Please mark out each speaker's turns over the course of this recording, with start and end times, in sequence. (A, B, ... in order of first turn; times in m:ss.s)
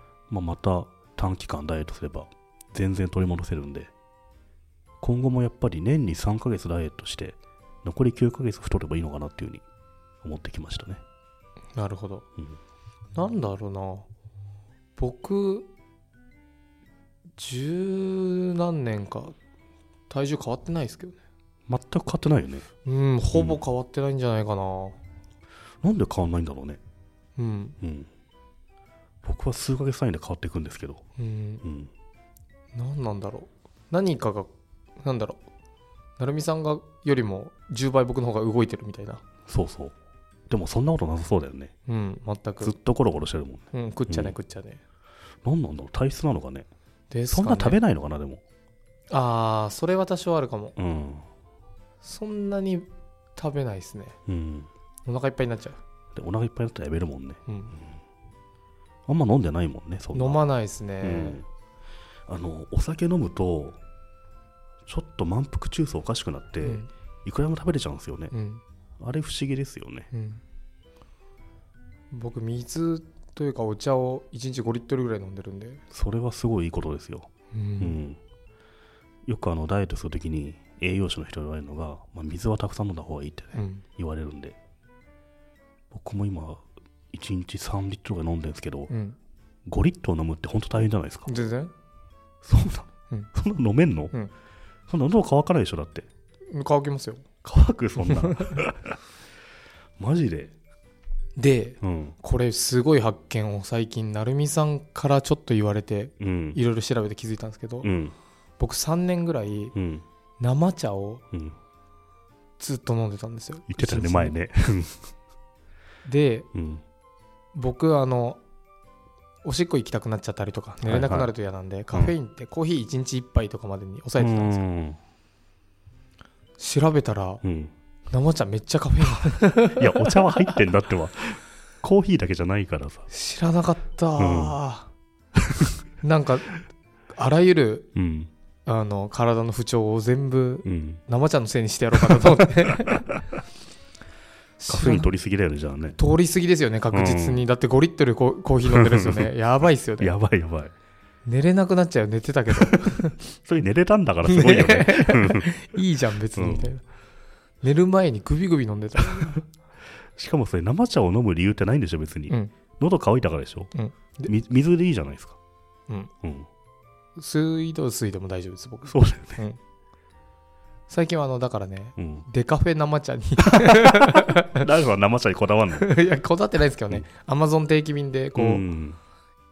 0:00.3-0:03.9 A
0:05.0-0:09.6 A
0:10.2-0:11.0 A
0:11.7-0:12.2 B
0:13.1-0:14.1 B
0:15.0-0:15.7 B
0:17.4-0:19.3 B
0:20.1-0:21.2 B
0:21.7-0:22.7 A
0:22.8-0:25.0 B
0:23.3-0:23.6 A
0:25.8-0:26.8 A
0:27.4-0:27.8 B
0:27.8-0:28.1 A
0:29.2-0:31.0 A
0:31.2-0:31.6 B
0:31.6-0:31.9 A
0:32.7-0:35.4 B
0:36.2-0:39.2 B
0:39.4-0:39.9 A
0:40.5-0:41.7 A
0:41.9-0:42.7 B
0:42.6-0:44.4 A
0:43.7-0:44.8 B
0:45.4-0:46.7 A
0:47.1-0:47.8 B
0:47.3-0:48.4 A
0:49.1-0:50.7 B
0:50.8-0:51.2 A
0:52.0-0:54.2 B
0:54.2-0:54.7 A
0:55.0-0:55.8 B
0:56.1-0:57.4 A
0:57.5-0:57.7 B
0:59.1-1:00.4 A
1:00.1-1:01.4 B
1:01.0-1:01.4 A
1:02.3-1:03.8 A
1:04.8-1:08.3 A
1:06.6-1:06.9 B
1:08.3-1:08.6 B
1:09.0-1:10.1 A
1:10.1-1:10.4 B
1:12.1-1:15.8 B
1:15.9-1:18.2 A
1:17.5-1:18.0 B
1:19.3-1:24.6 A
1:23.5-1:23.8 B
1:25.9-1:28.9 A
1:28.9-1:29.2 B
1:29.7-1:31.3 A
1:31.2-1:31.7 B
1:32.4-1:34.1 A
1:34.9-1:36.1 A
1:36.5-1:37.2 B
1:37.4-1:39.0 A
1:38.1-1:38.4 B
1:40.0-1:40.5 A
1:41.4-1:47.9 B
1:41.8-1:42.2 A
1:46.2-1:46.6 A
1:47.8-1:48.1 A
1:48.6-1:49.7 B
1:49.7-1:50.0 A
1:50.4-1:51.2 B
1:52.6-1:54.3 B
1:53.7-1:55.0 A
1:56.0-1:56.5 B
1:56.5-1:56.8 A
1:57.5-1:58.4 B
1:59.4-2:04.6 B
2:00.8-2:01.3 A
2:04.2-2:05.0 A
2:06.6-2:07.4 B
2:07.4-2:07.7 A
2:08.1-2:10.6 B
2:09.8-2:13.1 A
2:13.1-2:14.9 B
2:14.2-2:14.6 A
2:16.0-2:16.6 B
2:17.1-2:17.9 B
2:17.9-2:18.3 A
2:18.6-2:23.0 B
2:20.6-2:21.0 A
2:24.6-2:25.1 B
2:24.7-2:26.0 A
2:26.0-2:30.1 B
2:26.9-2:27.4 A
2:28.7-2:29.3 A
2:30.0-2:30.7 A
2:31.2-2:33.2 B
2:32.6-2:35.5 A
2:34.2-2:36.8 B
2:36.3-2:36.7 A
2:37.6-2:39.4 B
2:40.1-2:43.7 A
2:43.7-2:44.3 B
2:44.2-2:45.4 A
2:46.2-2:46.5 A
2:47.2-2:49.6 B
2:48.9-2:49.4 A
2:50.9-2:54.6 B
2:52.0-2:52.2 A
2:53.5-2:55.9 A
2:55.8-2:58.6 B
2:58.3-2:59.0 A